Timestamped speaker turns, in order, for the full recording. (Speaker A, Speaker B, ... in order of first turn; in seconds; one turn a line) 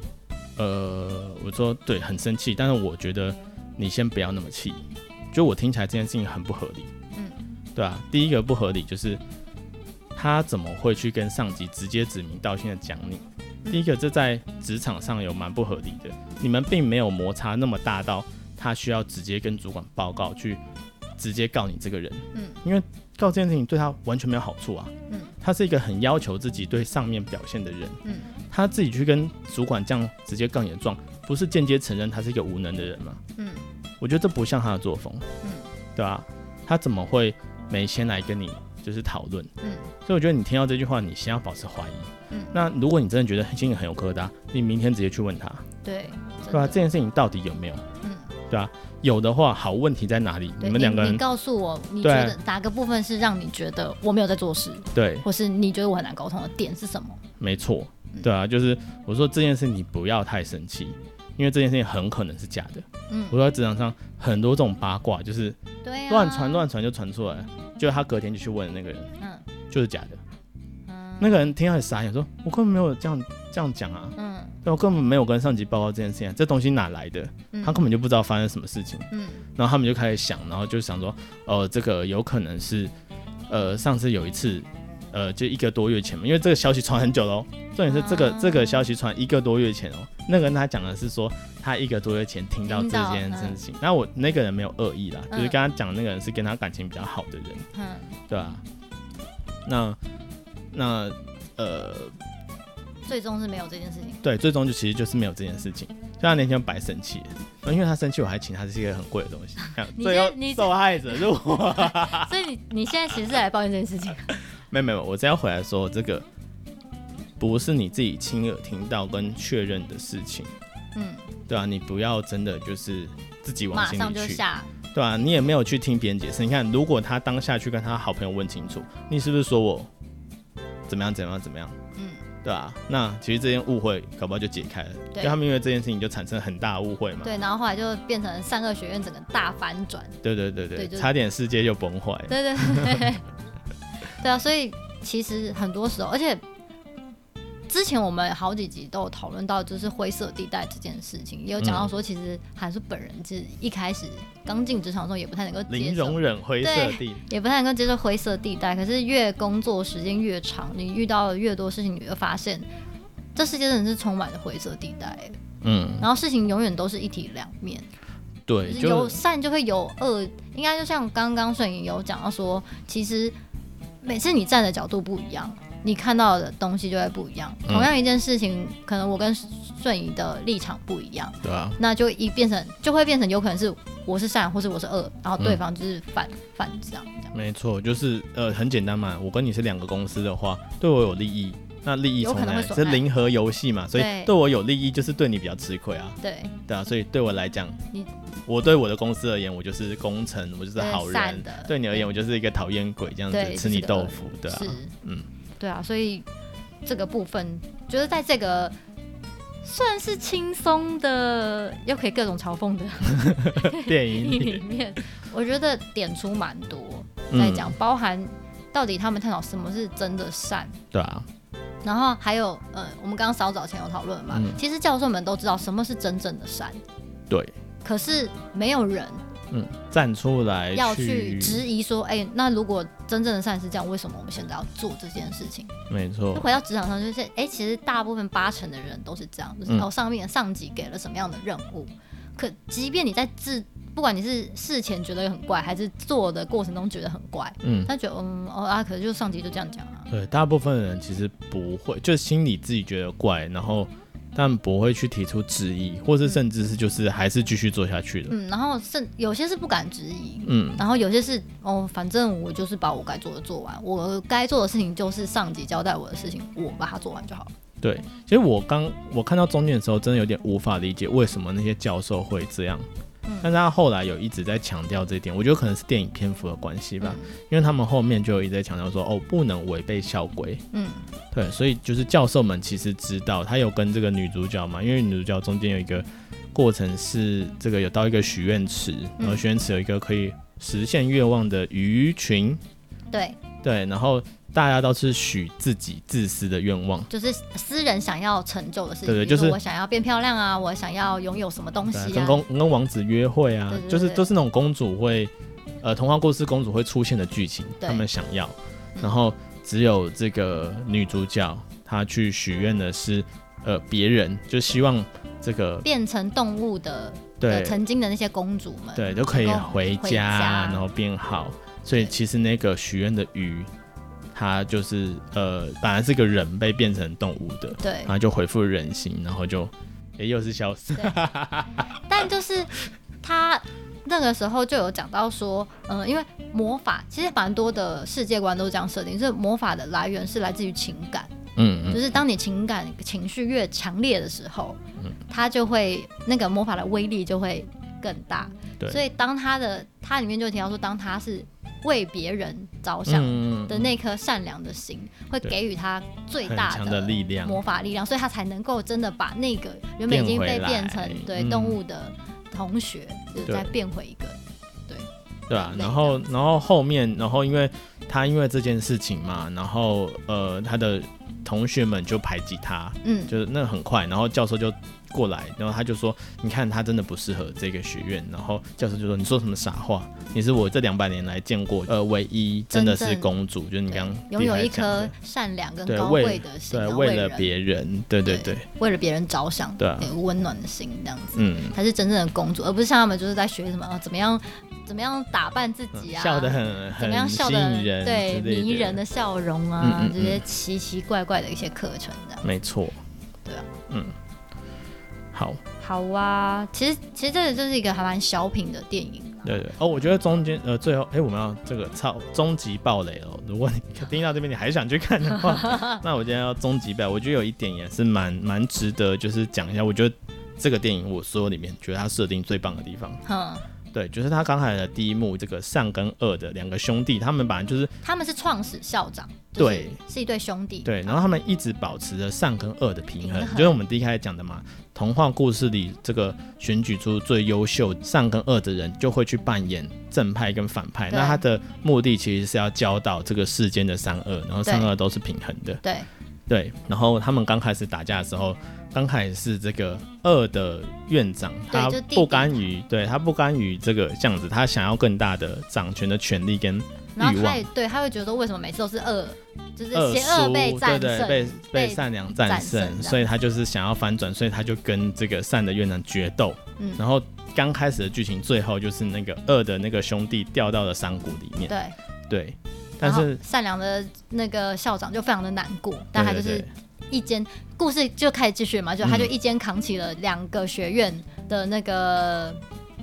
Speaker A: 0.6-6.9
Speaker A: 7.8-9.2
Speaker A: 10.2-20.6
Speaker A: 21.2-33.2
Speaker B: 22.3-22.6
Speaker B: 25.1-25.4
Speaker B: 28.0-28.3
Speaker B: 33.4-33.6
Speaker A: 34.0-35.3
Speaker B: 35.4-35.7
Speaker A: 36.0-39.5
Speaker B: 39.6-39.9
Speaker A: 40.1-45.6
Speaker B: 42.3-42.6
Speaker B: 45.8-46.8
Speaker A: 46.5-47.9
Speaker B: 48.0-48.3
Speaker A: 48.5-51.2
Speaker B: 50.6-57.2
Speaker A: 52.0-52.4
Speaker A: 54.9-55.3
Speaker A: 57.4-65.6
Speaker B: 63.1-63.4
Speaker B: 65.8-66.7
Speaker A: 66.1-69.1
Speaker B: 69.2-69.5
Speaker A: 69.7-70.2
Speaker B: 70.9-71.5
Speaker A: 71.2-82.9
Speaker B: 74.2-74.6
Speaker B: 77.5-77.8
Speaker B: 79.1-79.5
Speaker A: 83.5-97.7
Speaker B: 87.9-88.9
Speaker B: 92.7-93.6
Speaker B: 95.3-95.6
Speaker B: 97.7-98.2
Speaker A: 98.3-98.6
Speaker A: 99.7-100.0
Speaker A: 100.7-102.2
Speaker B: 103.1-104.2
Speaker A: 104.2-112.3
Speaker B: 109.8-114.4
Speaker A: 114.3-116.3
Speaker A: 117.4-120.5
Speaker B: 121.0-121.3
Speaker A: 121.5-124.4
Speaker B: 123.7-124.7
Speaker A: 124.9-129.9
Speaker A: 130.9-131.8
Speaker B: 132.0-132.3
Speaker A: 132.4-137.3
Speaker B: 137.2-140.2
Speaker A: 140.2-143.1
Speaker B: 140.8-141.1
Speaker B: 142.3-143.2
Speaker B: 144.1-146.4
Speaker B: 147.7-162.7
Speaker A: 151.6-151.9
Speaker A: 155.7-157.3
Speaker B: 163.3-165.4
Speaker A: 165.6-166.1
Speaker B: 166.0-167.9
Speaker A: 168.5-169.2
Speaker B: 168.7-173.3
Speaker B: 174.0-187.3
Speaker A: 181.4-181.8
Speaker A: 187.3-197.8
Speaker B: 192.2-193.1
Speaker B: 193.9-194.3
Speaker B: 196.2-196.6
Speaker A: 198.5-205.3
Speaker B: 200.8-202.0
Speaker B: 203.3-204.9
Speaker B: 205.6-206.3
Speaker B: 206.8-208.7
Speaker B: 209.6-220.8
Speaker A: 213.1-214.6
Speaker A: 217.3-217.8
Speaker A: 220.9-221.3
Speaker B: 221.8-226.8
Speaker A: 224.3-224.6
Speaker A: 227.3-227.6
Speaker B: 227.8-229.2
Speaker A: 229.5-231.7
Speaker B: 230.7-235.8
Speaker A: 235.9-236.5
Speaker B: 236.3-250.1
Speaker A: 247.6-247.9
Speaker A: 250.1-258.3
Speaker B: 258.3-267.5
Speaker A: 260.5-260.8
Speaker A: 267.8-272.9
Speaker A: 273.4-280.6
Speaker B: 277.0-277.3
Speaker B: 280.7-281.1
Speaker A: 281.3-292.6
Speaker B: 293.1-293.4
Speaker A: 293.6-297.1
Speaker B: 297.1-302.4
Speaker A: 299.1-299.6
Speaker A: 301.9-315.9
Speaker B: 303.7-304.3
Speaker B: 315.8-320.8
Speaker A: 317.4-317.8
Speaker A: 319.0-323.7
Speaker A: 324.3-331.8
Speaker B: 327.8-328.1
Speaker B: 332.1-341.3
Speaker A: 341.6-342.1
Speaker B: 341.9-364.4
Speaker A: 353.1-353.9
Speaker A: 356.4-357.6
Speaker A: 360.1-361.8
Speaker A: 363.4-363.7
Speaker B: 364.9-366.3
Speaker A: 365.5-385.1
Speaker B: 373.0-373.3
Speaker B: 382.7-383.3
Speaker B: 383.9-387.5
Speaker A: 385.9-388.7
Speaker B: 388.2-402.5
Speaker A: 389.8-390.1
Speaker A: 391.4-391.8
Speaker A: 395.9-399.0
Speaker A: 399.8-400.4
Speaker A: 402.4-403.0
Speaker A: 403.9-404.1
Speaker A: 405.3-405.6
Speaker B: 405.8-409.7
Speaker A: 409.4-423.2
Speaker B: 415.6-416.0
Speaker B: 423.3-423.6
Speaker A: 423.9-427.9
Speaker B: 428.0-431.1
Speaker A: 429.6-430.0
Speaker A: 430.8-445.8
Speaker B: 433.2-433.8
Speaker B: 441.1-441.4
Speaker B: 444.6-444.9
Speaker B: 445.8-446.1
Speaker A: 446.5-457.6
Speaker B: 451.7-452.6
Speaker B: 457.2-463.2
Speaker A: 459.9-471.8
Speaker B: 471.7-472.0
Speaker A: 472.3-473.4
Speaker B: 473.0-482.6
Speaker A: 476.1-476.7
Speaker A: 479.0-479.3